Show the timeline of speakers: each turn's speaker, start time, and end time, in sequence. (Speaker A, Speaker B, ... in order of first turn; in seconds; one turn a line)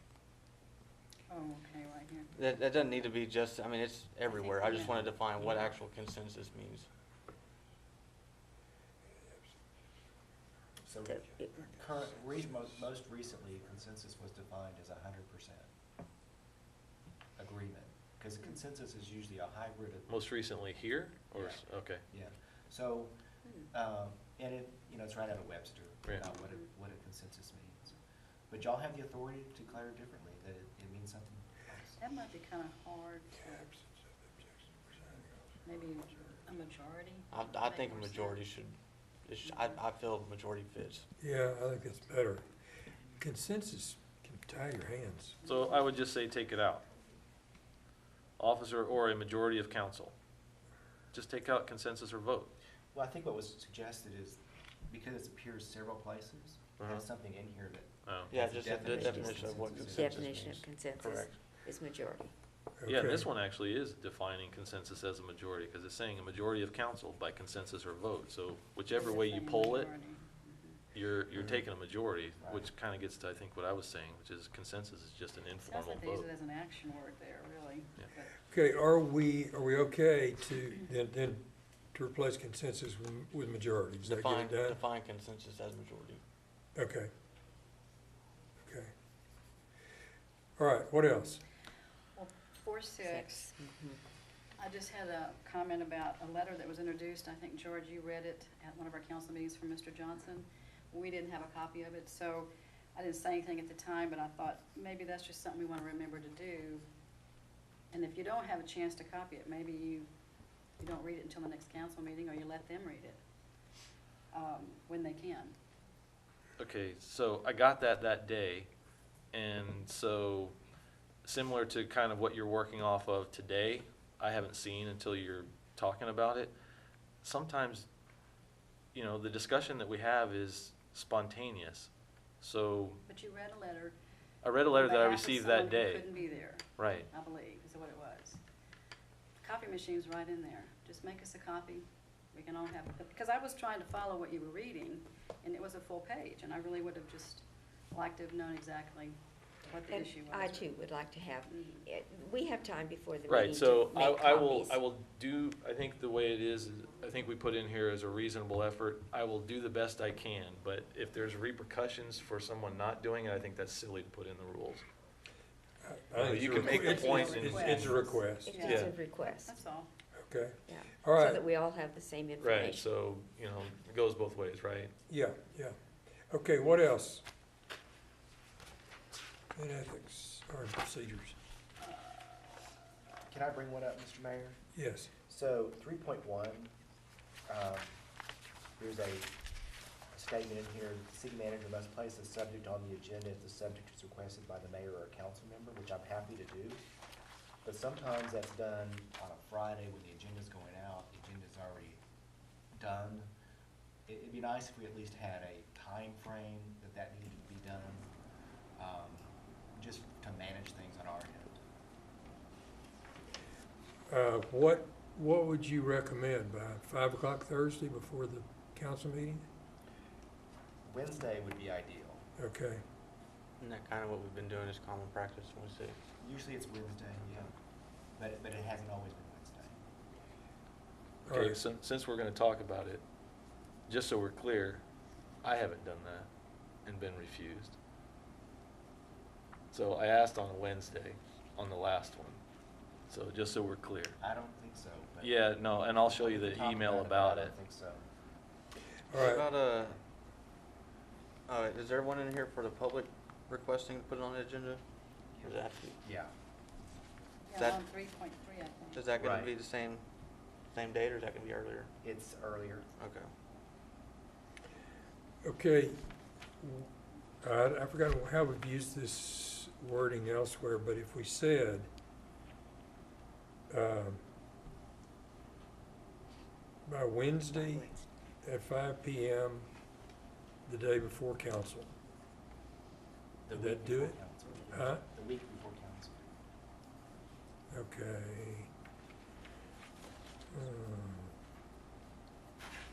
Speaker A: 1.3-2.3
Speaker B: 2.3-6.9
Speaker A: 4.3-5.7
Speaker C: 10.8-15.7
Speaker D: 11.1-11.5
Speaker C: 17.4-20.1
Speaker E: 20.1-22.0
Speaker C: 21.3-28.0
Speaker C: 28.5-32.0
Speaker A: 32.0-33.7
Speaker A: 35.6-38.4
Speaker B: 37.3-41.1
Speaker F: 41.2-42.5
Speaker F: 43.2-45.4
Speaker E: 45.4-46.9
Speaker E: 48.4-50.1
Speaker E: 51.1-52.5
Speaker C: 52.9-60.3
Speaker E: 58.0-58.3
Speaker B: 58.3-61.4
Speaker D: 58.9-62.3
Speaker F: 62.8-63.3
Speaker E: 62.9-69.9
Speaker A: 68.9-70.8
Speaker E: 70.9-76.3
Speaker A: 75.6-78.3
Speaker F: 78.5-84.8
Speaker B: 84.0-86.2
Speaker F: 86.8-87.1
Speaker F: 88.7-88.9
Speaker F: 90.6-91.4
Speaker A: 92.1-93.5
Speaker D: 93.0-94.0
Speaker A: 94.6-106.8
Speaker A: 107.9-110.1
Speaker A: 110.8-113.2
Speaker A: 114.3-115.5
Speaker E: 116.6-118.7
Speaker E: 119.3-120.5
Speaker E: 121.2-126.5
Speaker E: 127.2-127.9
Speaker E: 128.9-131.9
Speaker E: 132.4-133.0
Speaker A: 133.1-133.9
Speaker E: 134.4-136.1
Speaker A: 134.7-138.4
Speaker E: 136.8-137.1
Speaker A: 139.4-150.7
Speaker D: 149.9-154.8
Speaker A: 151.5-151.8
Speaker E: 153.3-164.8
Speaker F: 165.8-168.6
Speaker E: 166.2-167.7
Speaker A: 166.3-169.9
Speaker D: 168.4-169.6
Speaker E: 168.6-168.9
Speaker F: 170.3-171.4
Speaker D: 170.6-172.8
Speaker E: 172.4-174.9
Speaker F: 175.1-175.8
Speaker F: 176.3-177.2
Speaker F: 179.5-181.3
Speaker C: 183.3-184.6
Speaker F: 184.8-185.1
Speaker C: 185.2-186.7
Speaker C: 187.5-187.9
Speaker C: 188.8-189.3
Speaker C: 190.1-196.8
Speaker C: 197.6-202.0
Speaker C: 202.8-203.3
Speaker C: 204.1-208.1
Speaker C: 208.8-211.6
Speaker F: 214.1-219.4
Speaker C: 220.8-222.2
Speaker F: 222.4-222.8
Speaker B: 223.6-226.0
Speaker C: 226.2-227.5
Speaker C: 228.2-229.8
Speaker F: 231.2-231.6
Speaker E: 231.3-233.0
Speaker E: 233.9-234.8
Speaker E: 235.4-236.3
Speaker E: 236.8-237.8
Speaker E: 239.7-242.4
Speaker E: 243.1-244.2
Speaker C: 244.2-245.4
Speaker E: 245.2-247.5
Speaker C: 245.9-248.0
Speaker B: 249.1-250.0
Speaker F: 249.1-249.4
Speaker B: 251.5-254.8
Speaker C: 255.3-256.3
Speaker B: 255.4-256.0
Speaker A: 257.5-259.1
Speaker B: 257.6-257.8
Speaker B: 258.9-260.1
Speaker C: 259.2-259.5
Speaker B: 260.7-261.9
Speaker C: 262.0-262.9
Speaker B: 262.9-263.3
Speaker F: 265.4-271.9
Speaker F: 273.7-274.2
Speaker F: 276.9-277.9
Speaker D: 277.6-278.0
Speaker F: 278.4-279.7
Speaker F: 280.6-281.9
Speaker C: 283.5-286.3
Speaker F: 283.5-284.2
Speaker F: 284.7-285.0
Speaker F: 287.7-288.7
Speaker F: 290.5-291.3